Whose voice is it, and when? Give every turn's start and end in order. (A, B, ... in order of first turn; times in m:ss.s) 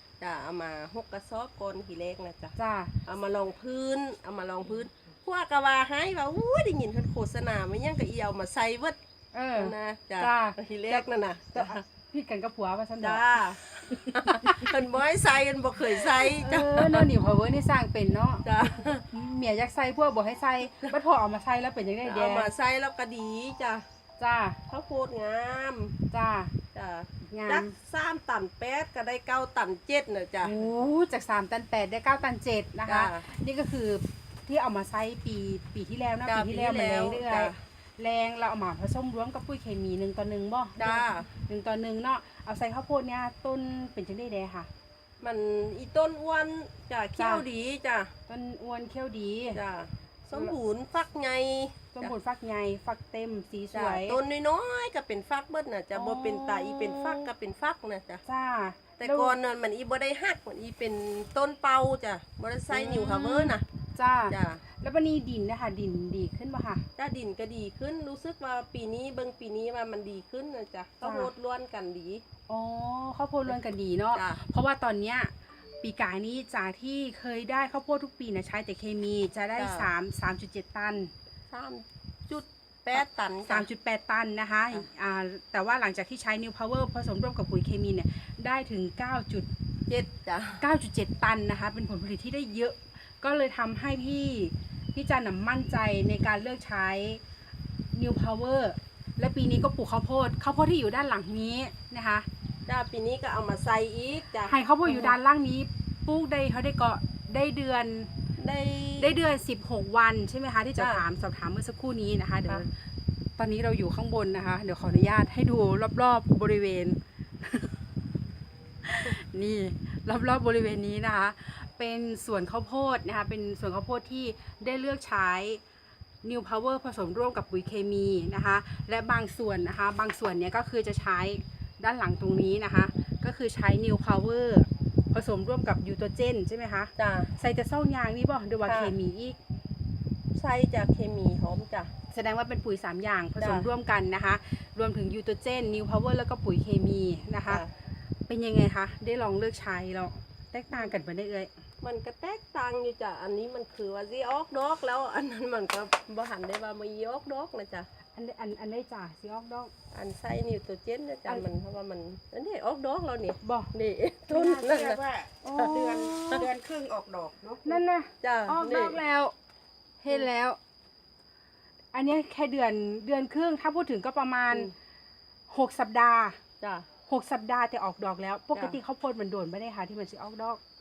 0:00.2-0:02.6 A
0:02.6-0:02.9 B
0:03.1-0:09.0 A
0:09.3-0:13.2 B
0:09.5-0:11.8 A
0:13.0-0:17.1 A
0:14.2-0:14.7 B
0:16.0-0:18.5 B
0:18.4-0:19.0 A
0:19.0-0:22.5 B
0:22.0-0:23.8 A
0:24.2-0:24.6 B
0:24.7-0:26.0 A
0:26.1-0:26.5 B
0:26.7-0:30.6 A
0:27.3-0:27.7 B
0:30.4-0:44.7 B
0:32.9-0:33.2 A
0:36.3-0:37.6 A
0:40.8-0:41.3 A
0:45.2-0:48.1 A
0:47.2-0:47.4 B
0:48.3-0:49.6 B
0:49.5-0:52.1 A
0:51.9-0:54.2 B
0:53.7-0:58.2 A
0:55.9-0:57.3 B
0:58.3-0:59.4 B
0:59.0-1:03.6 A
1:02.7-1:06.9 B
1:04.3-1:04.6 A
1:07.0-1:12.2 A
1:11.0-1:11.3 B
1:12.5-1:21.1 B
1:14.2-1:14.4 A
1:19.6-1:19.9 A
1:21.5-1:23.7 A
1:23.0-1:29.5 B
1:29.9-1:30.6 A
1:30.6-1:37.2 B
1:37.9-1:42.3 B
1:42.7-1:45.2 A
1:44.5-1:48.1 B
1:48.4-1:49.1 A
1:49.0-1:52.7 B
1:50.8-1:51.0 A
1:53.4-1:57.8 B
1:58.8-2:05.6 B
2:06.2-2:19.4 B
2:17.0-2:17.3 A
2:18.6-2:18.9 A
2:20.3-2:21.9 A
2:22.1-2:27.6 B
2:23.4-2:23.7 A
2:28.3-2:31.5 B
2:31.8-2:37.9 A
2:38.2-2:39.7 B
2:39.9-2:46.5 A
2:43.4-2:43.7 B
2:44.3-2:44.6 B
2:44.4-2:47.7 C
2:45.4-2:46.5 B
2:47.6-2:49.3 B
2:48.2-2:49.0 A
2:50.0-2:50.6 B
2:51.9-2:54.7 B
2:55.5-2:56.4 B
2:56.6-2:56.9 A
2:57.1-3:00.6 B